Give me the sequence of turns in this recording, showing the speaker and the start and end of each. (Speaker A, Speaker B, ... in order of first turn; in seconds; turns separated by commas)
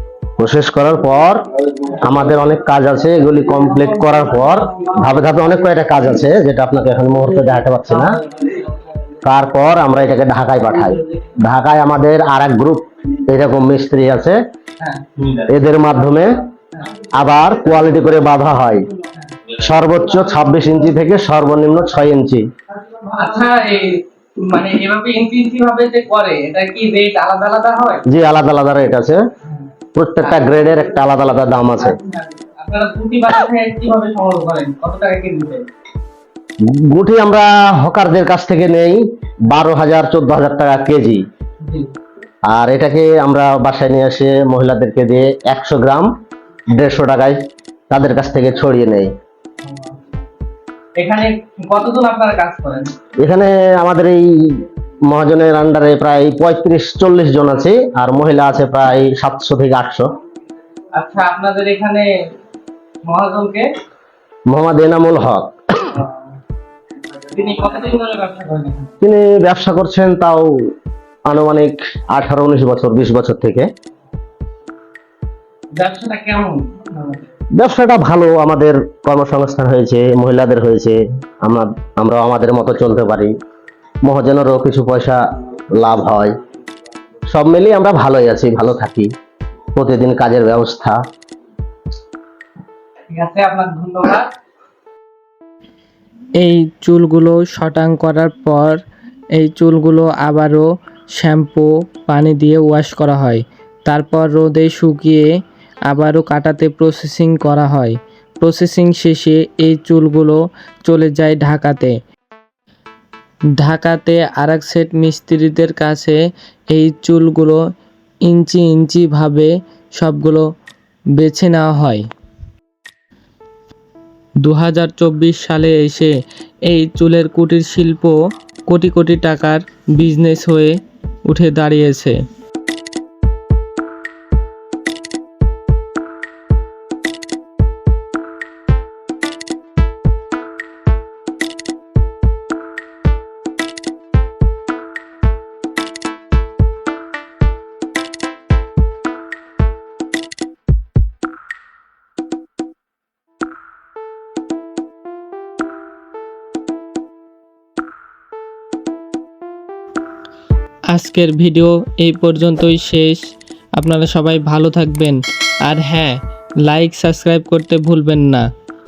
Speaker A: 0.4-8.2, Speaker A: 9.2-14.4, Speaker B: 14.8-15.1, Speaker A: 15.2-16.3, Speaker A: 17.1-18.9, Speaker A: 19.5-22.4, Speaker B: 23.0-28.0, Speaker A: 28.1-29.2, Speaker B: 29.4-29.7, Speaker A: 29.9-32.0, Speaker B: 30.2-30.7, Speaker B: 32.0-35.7, Speaker A: 36.6-41.2, Speaker B: 41.6-41.9, Speaker A: 42.5-46.1, Speaker A: 46.7-49.1, Speaker B: 49.6-50.2, Speaker B: 51.0-52.9, Speaker A: 53.2-60.1, Speaker B: 60.9-62.1, Speaker B: 63.0-63.7, Speaker A: 64.5-65.5, Speaker B: 65.9-66.3, Speaker B: 67.2-68.9, Speaker A: 69.0-70.7, Speaker A: 71.3-73.7, Speaker B: 75.7-77.2, Speaker A: 77.6-83.3, Speaker A: 84.0-86.3, Speaker A: 87.3-89.1, Speaker A: 89.7-91.0, Speaker B: 93.1-94.3, Speaker C: 96.4-98.8, Speaker C: 99.3-105.3, Speaker C: 105.9-112.0, Speaker C: 113.6-116.2, Speaker C: 116.7-117.6, Speaker C: 118.2-120.5, Speaker C: 121.2-122.0, Speaker C: 124.4-126.1, Speaker C: 126.7-128.2, Speaker C: 128.7-132.2, Speaker C: 160.9-163.2, Speaker C: 163.8-168.5